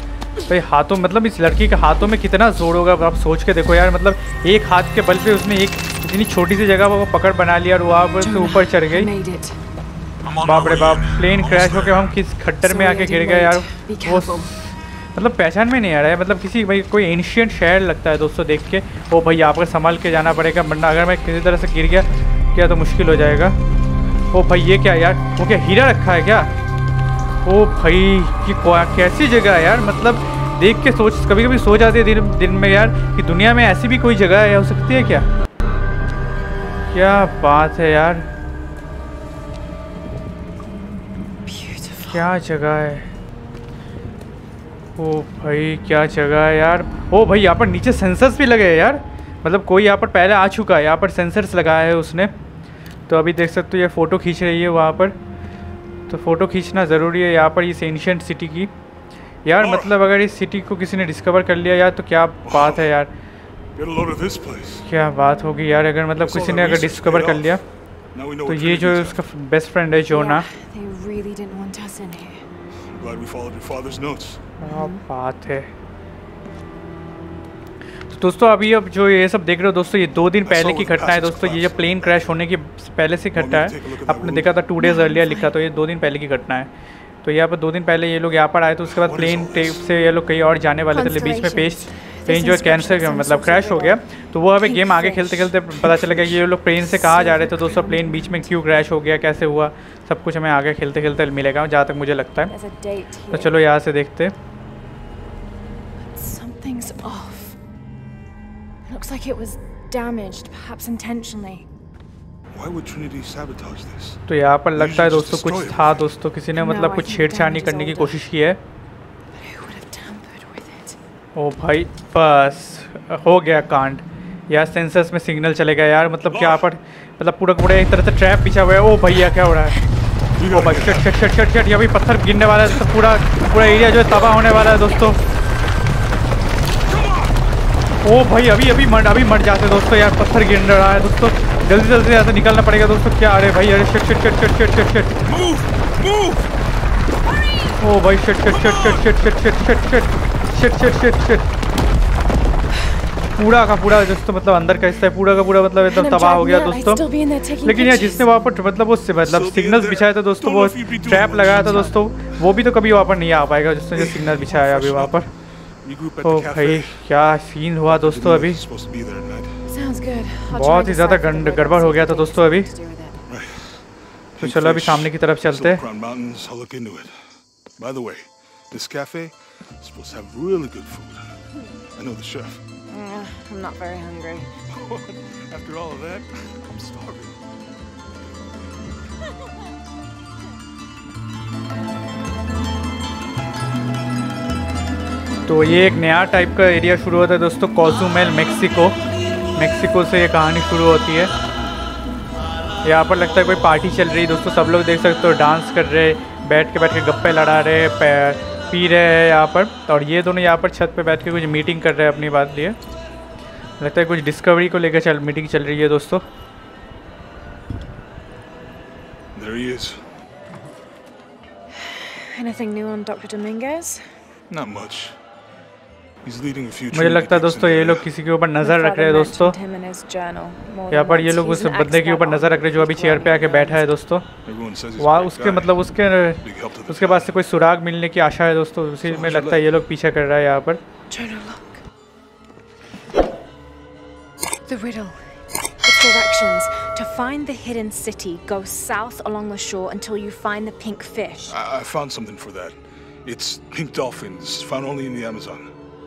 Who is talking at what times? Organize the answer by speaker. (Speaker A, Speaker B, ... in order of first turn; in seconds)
Speaker A: 0.5-9.1, 10.4-23.6, 24.3-26.5, 27.4-35.2, 36.9-38.3, 42.0-43.1, 45.0-52.3, 53.1-55.1, 56.1-58.7, 59.4-63.1, 64.8-67.6, 68.4-70.5, 74.6-75.7, 78.1-86.7, 87.2-102.5, 103.3-104.3, 114.3-118.6, 121.3-129.8, 130.5-135.2, 138.0-145.2, 147.8-151.4, 153.4-157.0, 157.6-165.3, 166.2-168.6, 170.5-172.7, 174.4-175.8, 195.5-199.0, 199.6-201.3, 202.8-212.8, 213.8-216.2, 226.9-229.5, 230.9-234.3, 235.0-240.8
Speaker B: 8.2-9.6, 12.6-14.5, 41.5-42.2, 70.1-72.4, 74.6-75.0, 84.8-85.5, 90.9-94.0, 94.6-96.1, 96.8-98.5, 102.5-103.6, 106.0-107.6, 108.9-111.7, 116.5-118.2, 119.3-121.0, 155.8-158.4, 161.5-161.9, 169.6-173.2, 182.9-184.5, 221.8-224.1, 228.6-233.9, 241.1-241.8, 244.7-245.2, 245.8-251.5
Speaker C: 10.2-12.2, 59.5-60.0, 62.5-62.9, 63.8-64.8, 66.2-67.6, 68.1-69.2, 72.9-74.4, 80.4-82.4, 83.3-84.5, 88.9-89.8, 112.5-114.2, 114.8-116.1, 126.2-126.7, 130.4-131.1, 145.2-146.4, 148.4-149.2, 159.2-161.9, 163.9-165.2, 165.8-167.0, 167.9-169.7, 173.3-177.2, 177.8-181.3, 181.9-182.6, 184.7-187.3, 219.3-220.1, 224.5-225.2, 226.2-228.1, 234.4-235.8, 236.4-237.4, 239.0-239.6, 251.5-255.7